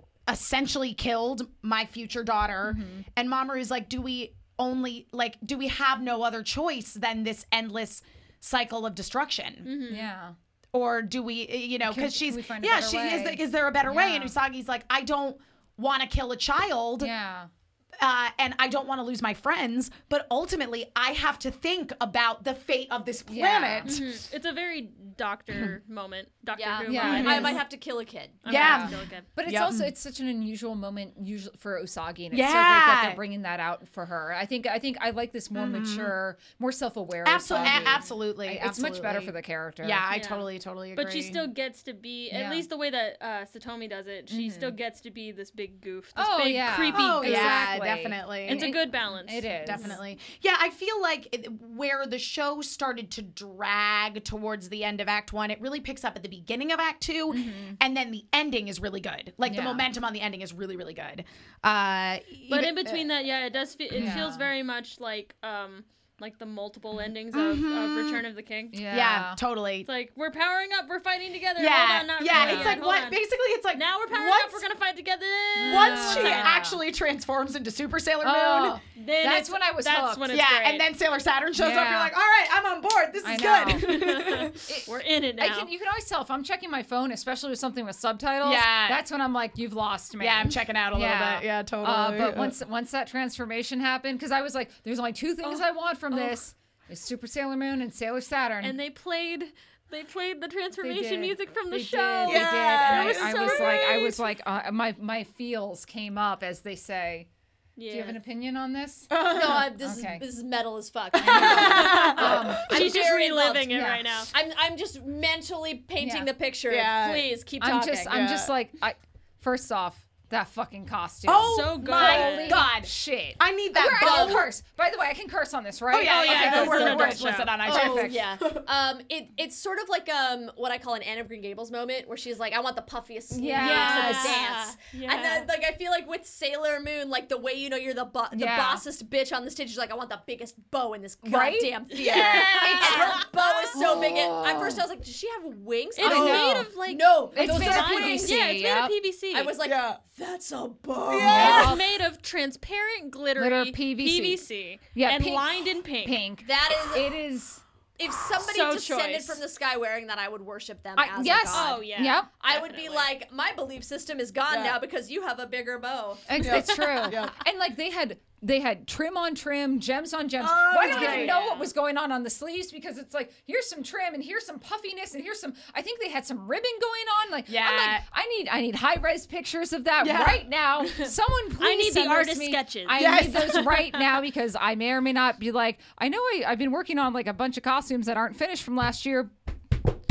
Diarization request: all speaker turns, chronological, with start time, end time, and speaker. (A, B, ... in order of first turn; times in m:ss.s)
0:00.3-0:09.7 A
0:02.6-0:03.0 B
0:09.6-0:10.1 C
0:09.9-0:10.4 B
0:10.7-0:17.1 A
0:11.8-0:14.4 B
0:17.0-0:17.5 B
0:18.0-0:24.0 A
0:23.3-0:24.0 B
0:23.8-0:27.6 C
0:26.6-0:28.4 D
0:26.8-0:27.6 B
0:27.0-0:27.6 A
0:28.4-0:29.3 C
0:28.4-0:40.0 B
0:28.5-0:29.9 A
0:32.3-0:33.2 A
0:35.5-0:36.1 A
0:37.2-0:41.4 A
0:37.5-0:38.1 C
0:40.1-0:47.7 C
0:42.3-0:42.7 B
0:44.3-0:44.8 B
0:46.2-0:50.0 B
0:46.9-0:48.7 A
0:48.4-0:50.0 C
0:49.6-1:03.0 A
0:57.3-0:57.8 B
0:59.4-0:59.9 B
1:02.5-1:08.8 C
1:03.9-1:04.5 B
1:07.3-1:08.2 A
1:08.7-1:09.4 B
1:08.9-1:09.9 A
1:09.8-1:13.2 C
1:11.6-1:14.6 A
1:12.3-1:12.8 B
1:13.7-1:16.6 C
1:15.6-1:16.8 B
1:15.6-1:18.8 A
1:18.2-1:20.3 B
1:18.9-1:20.8 C
1:20.3-1:24.7 A
1:21.6-1:22.1 B
1:23.2-1:24.0 B
1:23.6-1:25.7 C
1:24.6-1:38.8 B
1:28.4-1:29.0 A
1:30.2-1:32.5 A
1:35.4-1:36.4 C
1:38.6-1:44.0 C
1:40.8-1:47.3 B
1:42.2-1:44.2 A
1:47.8-1:48.2 C
1:47.9-1:50.2 B
1:49.1-1:49.8 A
1:49.3-1:53.7 D
1:51.1-1:53.0 B
1:51.2-1:52.6 A
1:51.5-1:54.3 C
1:53.7-1:54.1 B
1:54.3-1:58.3 D
1:56.0-1:56.3 B
1:56.7-1:57.4 A
1:57.6-2:08.2 B
1:58.0-1:58.5 A
2:01.2-2:04.5 A
2:01.5-2:02.6 C
2:03.9-2:04.4 D
2:05.9-2:08.6 A
2:06.0-2:07.6 C
2:07.6-2:28.4 D
2:13.3-2:14.4 B
2:13.6-2:15.5 C
2:18.3-2:18.8 B
2:21.2-2:23.2 B
2:21.9-2:23.8 C
2:22.0-2:22.6 A
2:23.7-2:24.8 B
2:23.9-2:24.2 A
2:25.9-2:29.6 C
2:26.0-2:26.7 B
2:26.1-2:26.4 A
2:27.3-2:29.0 B
2:29.3-2:31.7 D
2:29.6-2:30.0 A
2:31.1-2:31.8 A
2:31.2-2:31.9 B
2:31.2-2:36.2 C
2:33.4-2:37.6 B
2:36.4-2:37.2 D
2:38.0-2:46.5 D
2:38.2-2:39.4 C
2:41.0-2:42.3 B
2:41.5-2:43.1 C
2:44.5-2:44.8 A
2:46.3-3:09.3 B
2:46.4-2:47.4 A
2:50.4-2:51.4 A
2:50.8-2:51.7 C
2:57.5-2:58.0 A
3:00.0-3:00.5 A
3:01.6-3:03.7 C
3:02.9-3:03.8 A